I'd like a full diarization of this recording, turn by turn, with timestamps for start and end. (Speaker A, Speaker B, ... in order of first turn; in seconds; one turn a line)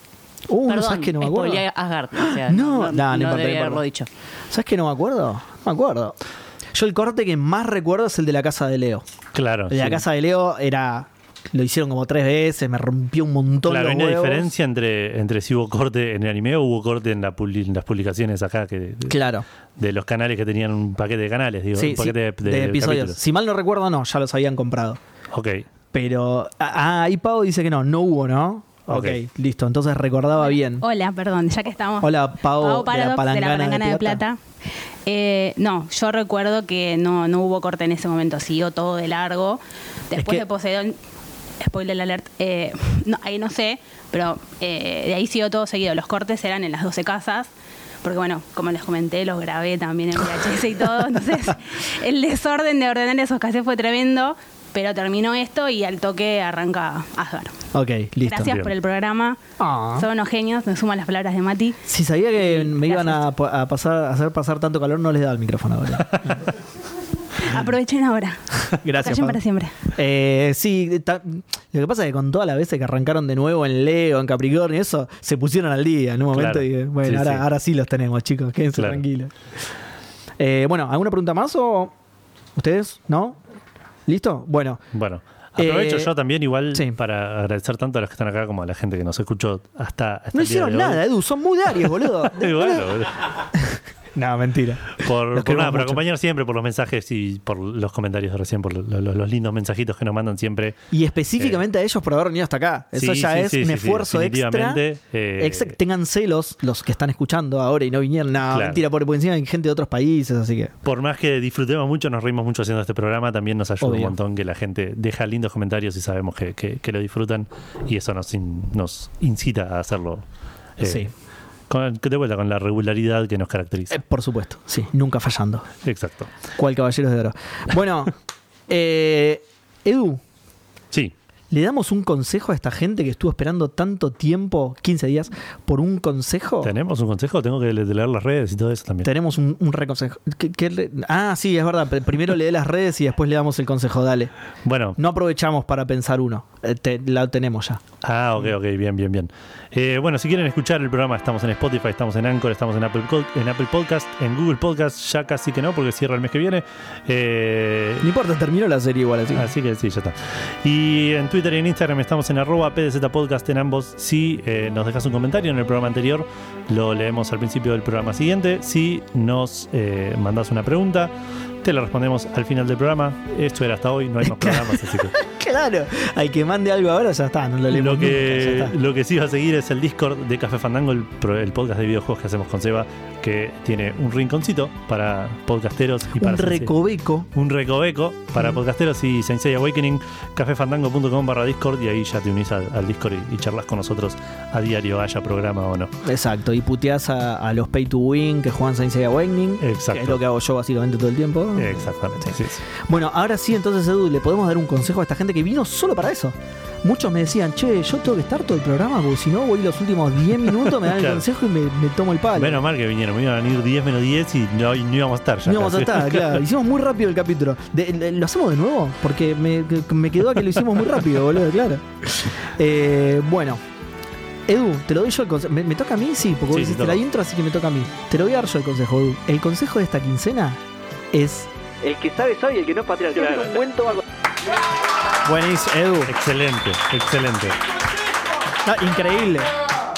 Speaker A: 0.5-3.8
Speaker B: 0.7-4.1
Speaker A: 4.5-6.1
Speaker A: 6.7-9.0
Speaker C: 9.3-10.0
Speaker A: 9.7-14.5
Speaker C: 13.6-19.2
Speaker A: 19.1-19.4
Speaker C: 19.8-23.2
Speaker A: 21.8-25.0
Speaker C: 25.3-25.6
Speaker A: 25.9-30.8
Speaker C: 28.9-29.2
Speaker D: 30.4-34.4
Speaker A: 32.0-34.2
Speaker D: 35.1-41.0
Speaker A: 40.1-40.4
Speaker D: 41.6-47.5
Speaker D: 48.0-57.5
Speaker A: 57.7-58.6
Speaker D: 58.2-59.4
Speaker C: 58.4-58.7
Speaker A: 59.6-60.1
Speaker D: 60.0-61.8
Speaker A: 61.9-66.4
Speaker D: 62.4-63.2
Speaker D: 67.5-68.4
Speaker A: 68.8-79.3
Speaker D: 69.0-69.8
Speaker C: 76.3-77.5
Speaker C: 78.7-79.0
Speaker A: 80.4-81.9
Speaker A: 82.5-83.4
Speaker A: 84.1-84.8
Speaker C: 84.9-91.0
Speaker A: 85.6-86.1
Speaker A: 90.3-92.8
Speaker C: 91.8-93.4
Speaker A: 94.2-96.0
Speaker C: 95.0-100.8
Speaker A: 100.9-104.8
Speaker C: 102.9-105.8
Speaker A: 105.4-110.7
Speaker C: 108.5-108.8
Speaker C: 110.8-120.2
Speaker A: 113.8-114.1
Speaker C: 120.8-121.1
Speaker A: 120.8-121.1
Speaker C: 121.7-123.9
Speaker A: 123.9-125.7
Speaker C: 125.8-126.3
Speaker A: 126.6-128.1
Speaker A: 128.7-130.2
Speaker A: 131.5-136.7
Speaker C: 136.6-139.1
Speaker A: 139.0-144.3
Speaker C: 144.6-145.0
Speaker A: 145.0-147.8
Speaker C: 148.0-158.1
Speaker A: 158.0-159.5
Speaker C: 159.3-175.1
Speaker A: 174.2-178.7
Speaker C: 177.7-186.7
Speaker A: 186.2-187.3
Speaker C: 187.3-195.9
Speaker A: 196.0-212.6
Speaker C: 199.6-200.2
Speaker C: 201.6-202.6
Speaker C: 210.5-211.2
Speaker C: 212.3-216.4
Speaker A: 215.4-223.6
Speaker A: 224.5-230.6
Speaker C: 226.5-227.0
Speaker A: 231.1-234.0
Speaker A: 235.2-236.1
Speaker C: 236.1-237.6
Speaker A: 238.6-239.5